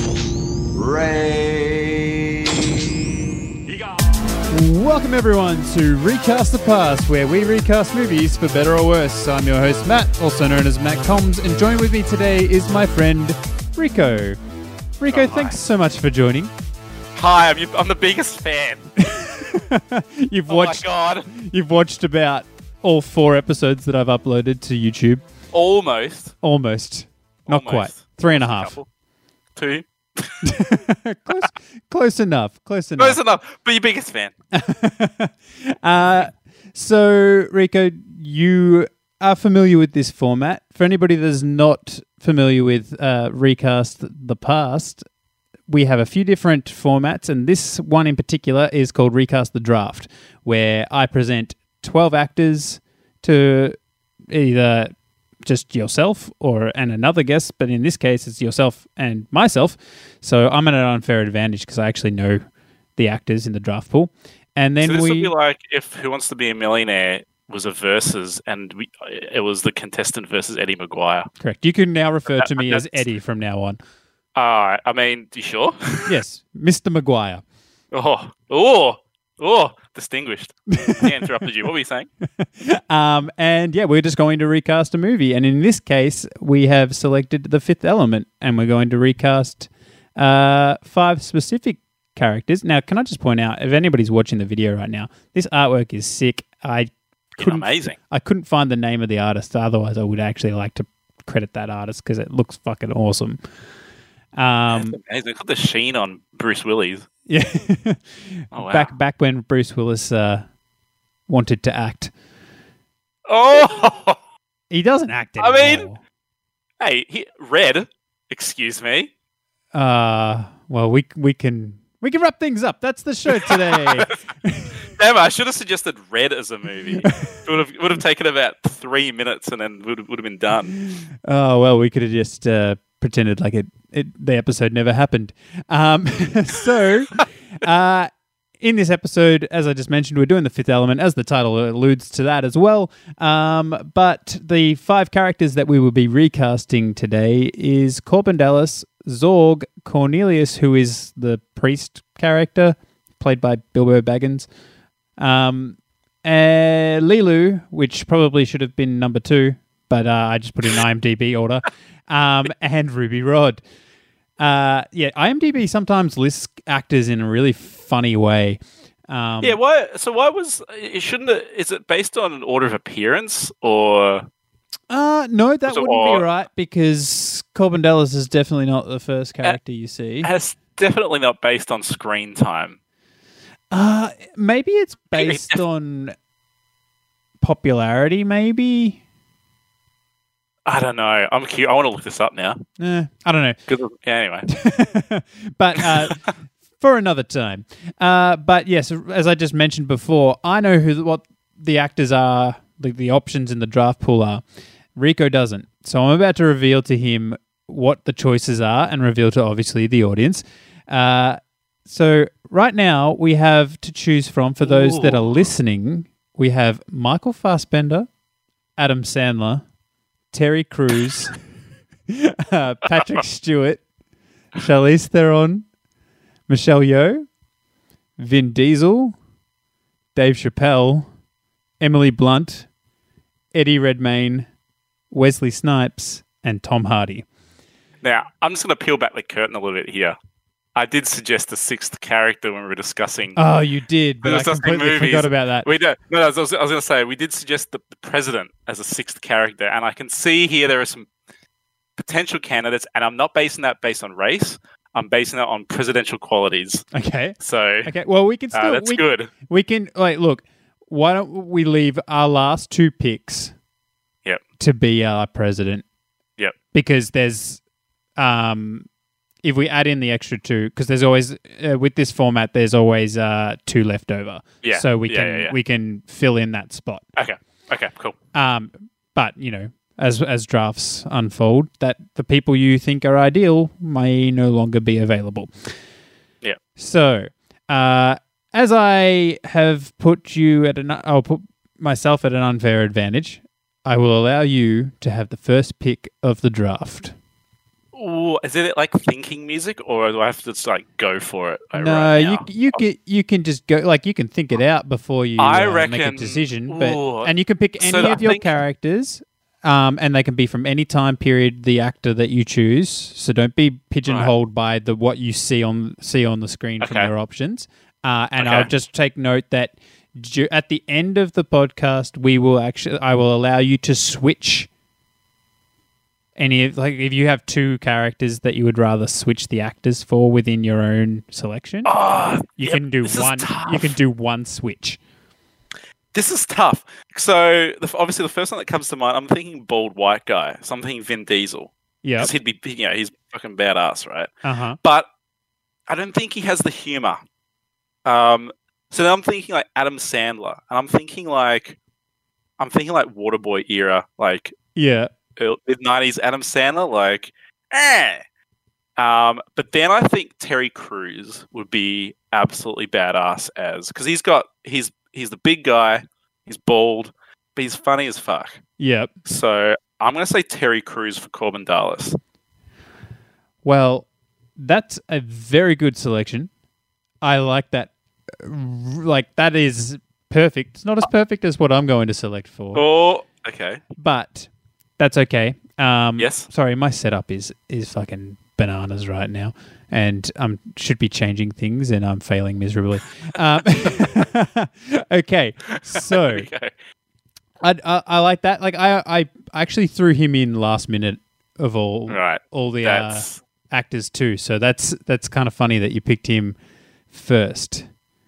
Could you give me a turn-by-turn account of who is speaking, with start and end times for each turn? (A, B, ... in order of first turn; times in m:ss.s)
0:00.7-0:03.0 A
0:04.5-0:14.4 B
0:15.0-0:16.5 B
0:15.1-0:15.6 C
0:17.2-0:18.9 C
0:19.0-0:25.2 B
0:20.5-0:21.3 C
0:25.5-0:26.3 C
0:26.4-0:28.8 B
0:27.5-0:28.9 C
0:29.6-0:30.5 C
0:30.4-0:33.2 B
0:33.0-0:34.3 C
0:34.5-0:45.0 B
0:45.7-0:53.8 B
0:54.3-0:54.9 B
0:55.4-1:02.4 B
1:03.0-1:05.3 B
1:04.8-1:11.3 C
1:11.4-1:13.8 B
1:12.3-1:13.0 C
1:14.4-1:16.2 C
1:16.1-1:17.4 B
1:17.9-1:22.1 C
1:20.8-1:21.2 B
1:22.4-1:43.4 B
1:37.4-1:38.0 C
1:44.4-1:45.0 B
1:44.7-1:47.1 C
1:47.3-1:50.4 B
1:48.5-1:48.9 C
1:51.3-1:52.1 B
1:53.3-1:54.2 C
1:54.7-1:56.0 B
1:55.4-1:55.9 C
1:56.8-1:59.1 C
1:59.7-2:04.7 B
2:03.3-2:04.2 C
2:05.0-2:10.8 C
2:07.0-2:07.4 B
2:10.9-2:34.5 B
2:35.2-2:43.6 B
2:44.4-2:49.6 B
2:49.4-2:54.2 C
2:54.9-3:00.3 B
2:55.7-2:56.2 C
3:00.2-3:02.8 C
3:03.7-3:06.2 B
3:05.2-3:05.6 C
3:07.4-3:09.0 B
3:10.7-3:12.6 C
3:12.8-3:13.6 B
3:13.7-3:14.5 C
3:14.5-3:24.4 B
3:15.8-3:16.1 C
3:25.0-3:38.1 B
3:34.6-3:35.4 C
3:38.8-3:39.6 B
3:40.3-3:41.3 B
3:42.1-3:43.8 B
3:44.6-3:45.7 B
3:46.5-3:47.3 B
3:48.2-3:49.2 B
3:50.2-3:51.1 B
3:51.8-3:52.7 B
3:53.5-3:54.5 B
3:55.1-3:57.3 B
3:58.0-4:00.2 C
4:00.8-4:03.4 C
4:03.4-4:05.7 B
4:04.2-4:11.1 C
4:12.0-4:16.8 C
4:16.9-4:23.5 B
4:17.4-4:17.9 C
4:18.5-4:19.3 C
4:24.6-4:25.8 B
4:26.7-4:27.6 B
4:28.2-4:28.9 B
4:29.4-4:37.0 B
4:34.6-4:35.6 C
4:37.2-4:38.2 C
4:38.3-4:45.7 B
4:46.8-4:57.2 B
4:57.9-5:02.8 C
5:01.8-5:24.7 B
5:05.4-5:08.6 C
5:14.1-5:14.3 C
5:16.8-5:17.1 C
5:18.4-5:18.7 C
5:26.4-5:32.0 B
5:31.8-5:34.0 C
5:32.5-5:35.0 B
5:36.1-5:45.1 C
5:42.0-5:42.3 B
5:44.4-5:44.8 B
5:45.9-5:47.2 C
5:48.1-5:51.8 C
5:52.6-5:54.6 C
5:54.8-5:55.1 B
5:55.4-5:58.2 C
5:59.0-6:08.6 C
6:08.8-6:09.1 B
6:09.2-6:12.2 C
6:13.6-6:16.5 B
6:17.2-6:22.8 B
6:22.8-6:23.8 C
6:24.0-6:36.5 B
6:26.2-6:26.5 C
6:33.7-6:34.1 C
6:35.7-6:36.7 C
6:37.6-6:46.6 B
6:42.1-6:43.4 C
6:47.1-6:47.9 B